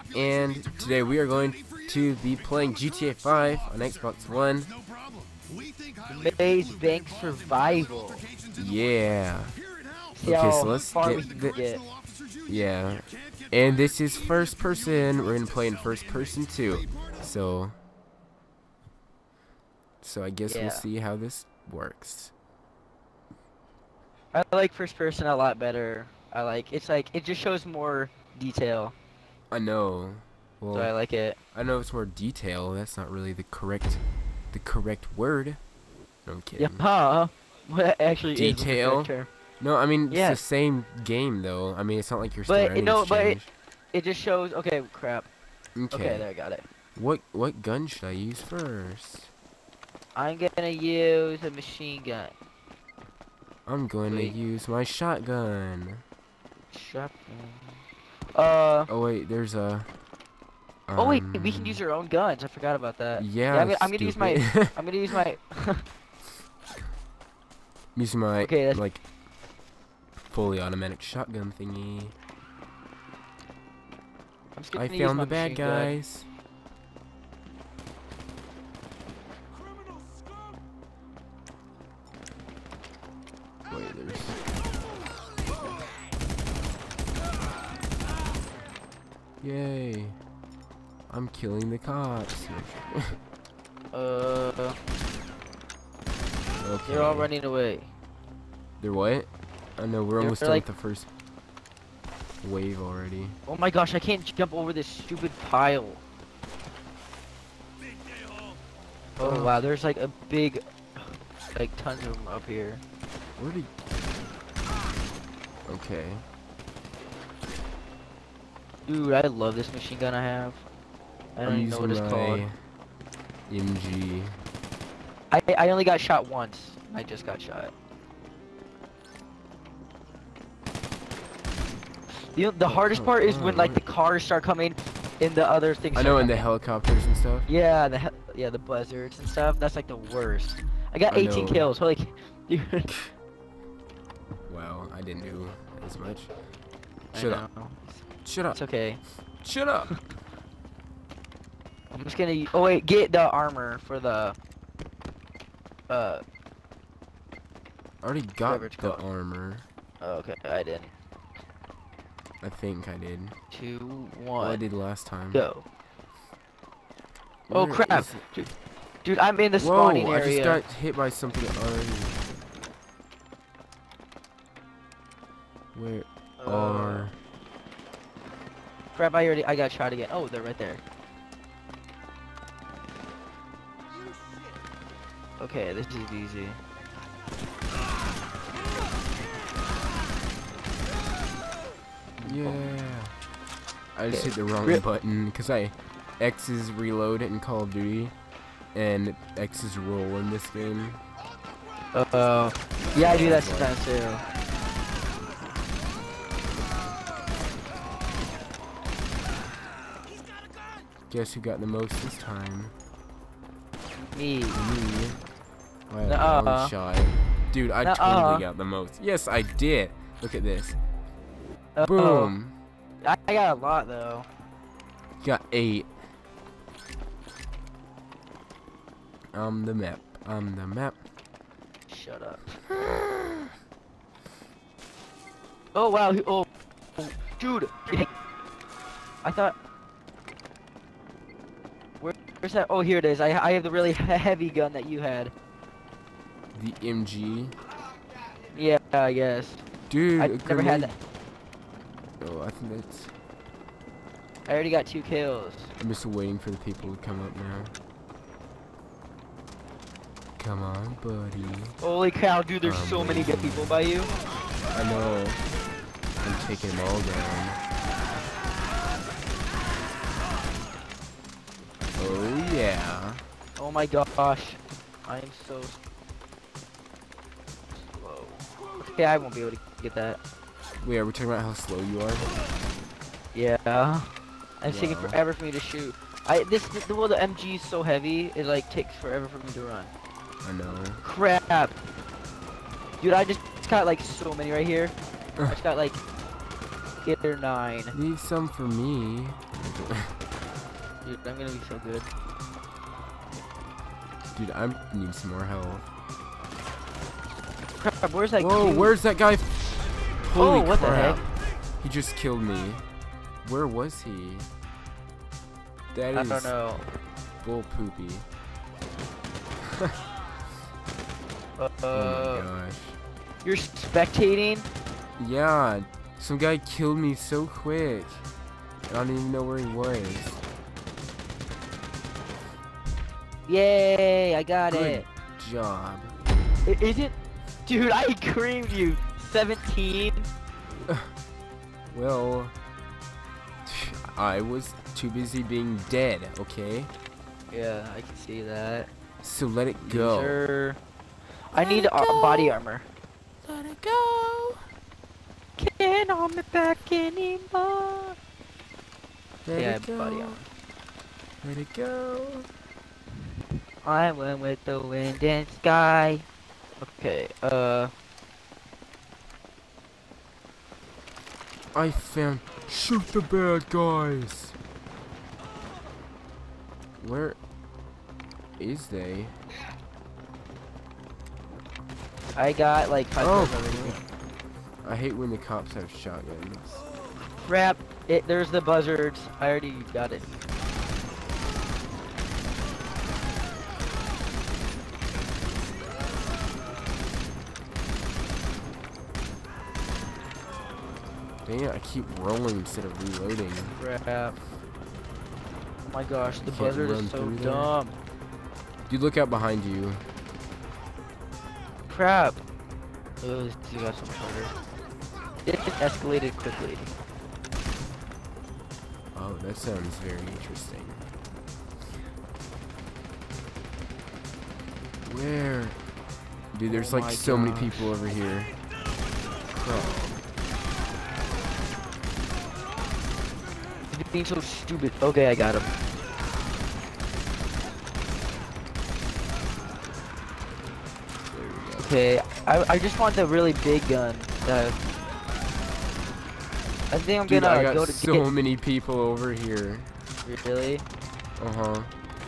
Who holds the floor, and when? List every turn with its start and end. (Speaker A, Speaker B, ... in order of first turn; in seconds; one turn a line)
Speaker A: 0.1-4.7
Speaker B: 6.0-8.3
Speaker A: 8.5-9.6
Speaker B: 10.2-11.8
Speaker A: 10.2-11.6
Speaker A: 12.4-17.8
Speaker A: 20.0-22.3
Speaker B: 20.5-20.9
Speaker B: 24.3-28.9
Speaker A: 29.5-30.9
Speaker B: 30.7-31.4
Speaker A: 31.5-35.6
Speaker A: 36.2-36.8
Speaker B: 36.6-39.3
Speaker A: 38.3-43.5
Speaker B: 40.1-40.4
Speaker B: 42.5-43.4
Speaker B: 43.9-45.3
Speaker A: 45.8-46.2
Speaker B: 45.9-46.6
Speaker A: 47.0-49.3
Speaker B: 50.1-52.3
Speaker A: 53.7-56.0
Speaker B: 54.1-54.3
Speaker B: 56.7-57.8
Speaker B: 58.3-58.9
Speaker A: 58.9-59.9
Speaker A: 60.9-61.8
Speaker B: 61.0-65.9
Speaker A: 63.2-64.8
Speaker A: 68.0-69.0
Speaker B: 68.4-68.8
Speaker A: 70.3-72.1
Speaker B: 74.5-76.0
Speaker A: 74.7-76.3
Speaker A: 83.7-84.4
Speaker A: 89.4-90.2
Speaker A: 91.1-93.2
Speaker B: 93.9-94.8
Speaker A: 96.6-97.3
Speaker B: 96.9-97.9
Speaker A: 98.8-101.1
Speaker B: 100.2-100.6
Speaker A: 102.4-103.4
Speaker B: 103.5-106.0
Speaker A: 109.2-109.6
Speaker B: 109.2-112.8
Speaker A: 113.4-113.7
Speaker A: 115.7-116.2
Speaker B: 118.9-120.6
Speaker B: 121.4-122.5
Speaker A: 121.5-122.5
Speaker A: 123.5-124.4
Speaker B: 125.3-127.7
Speaker B: 132.1-136.4
Speaker A: 132.6-133.8
Speaker A: 135.9-137.5
Speaker B: 137.5-142.9
Speaker A: 141.1-141.7
Speaker A: 144.5-146.3
Speaker B: 147.1-149.0
Speaker A: 147.1-147.4
Speaker A: 148.2-148.6
Speaker A: 149.4-149.9
Speaker B: 151.9-154.4
Speaker B: 155.9-156.2
Speaker A: 158.0-159.7
Speaker B: 158.4-159.0
Speaker B: 160.0-160.9
Speaker A: 162.4-163.3
Speaker B: 163.5-164.6
Speaker A: 164.4-165.4
Speaker B: 165.3-165.6
Speaker A: 167.5-168.2
Speaker B: 167.5-168.5
Speaker B: 169.0-170.6
Speaker A: 169.6-172.2
Speaker A: 175.7-177.2
Speaker B: 176.4-177.1
Speaker B: 178.9-180.8
Speaker B: 185.4-186.6
Speaker B: 192.2-192.7
Speaker A: 192.2-193.1
Speaker A: 193.9-198.1
Speaker B: 194.1-194.8
Speaker A: 198.7-201.0
Speaker B: 201.9-204.2
Speaker A: 202.9-203.7
Speaker A: 211.1-212.7
Speaker B: 214.1-214.6
Speaker A: 214.5-215.2
Speaker A: 215.9-220.8
Speaker B: 216.0-216.7
Speaker B: 217.8-218.4
Speaker B: 221.8-222.3
Speaker A: 221.8-222.5
Speaker B: 223.0-224.3
Speaker A: 225.2-225.9
Speaker A: 229.3-231.0
Speaker B: 231.9-232.5
Speaker A: 232.7-233.5
Speaker B: 235.7-238.1
Speaker B: 239.2-239.6
Speaker B: 242.0-245.3
Speaker A: 246.5-247.6
Speaker B: 248.5-249.6
Speaker A: 249.9-250.9
Speaker B: 250.2-250.9
Speaker A: 252.2-253.1
Speaker B: 254.4-255.7
Speaker A: 255.8-257.7
Speaker A: 260.4-261.8
Speaker B: 261.8-264.1
Speaker A: 262.6-263.8
Speaker A: 264.7-265.4
Speaker A: 266.2-267.6
Speaker A: 271.9-273.2
Speaker B: 273.6-275.8
Speaker B: 277.8-280.2
Speaker A: 280.8-282.3
Speaker B: 283.3-289.9
Speaker A: 284.6-285.2
Speaker A: 290.4-291.0
Speaker B: 291.0-291.8
Speaker B: 293.0-294.9
Speaker B: 295.5-296.0
Speaker B: 297.0-297.9
Speaker A: 297.9-300.1
Speaker B: 301.0-302.1
Speaker A: 304.3-305.9
Speaker B: 307.8-308.9
Speaker A: 308.4-309.6
Speaker A: 310.2-311.2
Speaker B: 310.3-311.2
Speaker A: 311.8-312.8
Speaker A: 313.4-314.5
Speaker A: 315.9-316.5
Speaker B: 316.1-316.8
Speaker A: 317.4-318.2
Speaker B: 321.6-322.4
Speaker A: 321.9-322.9
Speaker B: 323.4-324.7
Speaker A: 325.2-328.2
Speaker A: 328.9-330.4
Speaker B: 333.5-335.1
Speaker A: 334.7-336.1
Speaker B: 336.6-340.3
Speaker A: 341.9-342.6
Speaker A: 343.6-346.9
Speaker B: 347.5-348.9
Speaker A: 349.2-350.4
Speaker B: 349.8-350.8
Speaker B: 351.5-352.9
Speaker A: 351.5-352.6
Speaker A: 353.4-354.7
Speaker B: 355.6-358.2
Speaker A: 359.4-360.4
Speaker B: 359.6-360.4
Speaker A: 361.4-362.5
Speaker B: 363.8-366.3
Speaker B: 366.8-367.9
Speaker A: 371.7-374.6
Speaker A: 377.0-377.4
Speaker A: 378.6-379.3
Speaker B: 382.3-384.0
Speaker A: 383.2-384.0
Speaker A: 384.8-386.8
Speaker B: 387.4-390.3
Speaker A: 401.4-403.8
Speaker B: 403.8-404.4
Speaker B: 405.9-408.0
Speaker A: 406.2-407.8
Speaker A: 408.9-410.1
Speaker B: 411.9-412.4
Speaker B: 413.2-414.6
Speaker B: 415.4-416.9
Speaker A: 419.1-421.1
Speaker A: 425.0-425.8
Speaker A: 426.5-428.5
Speaker B: 426.7-427.9
Speaker A: 429.5-430.1
Speaker B: 433.9-435.8
Speaker A: 441.3-441.9
Speaker B: 441.8-444.8
Speaker B: 446.9-448.2
Speaker A: 447.2-449.9
Speaker B: 450.2-450.8
Speaker A: 451.4-451.9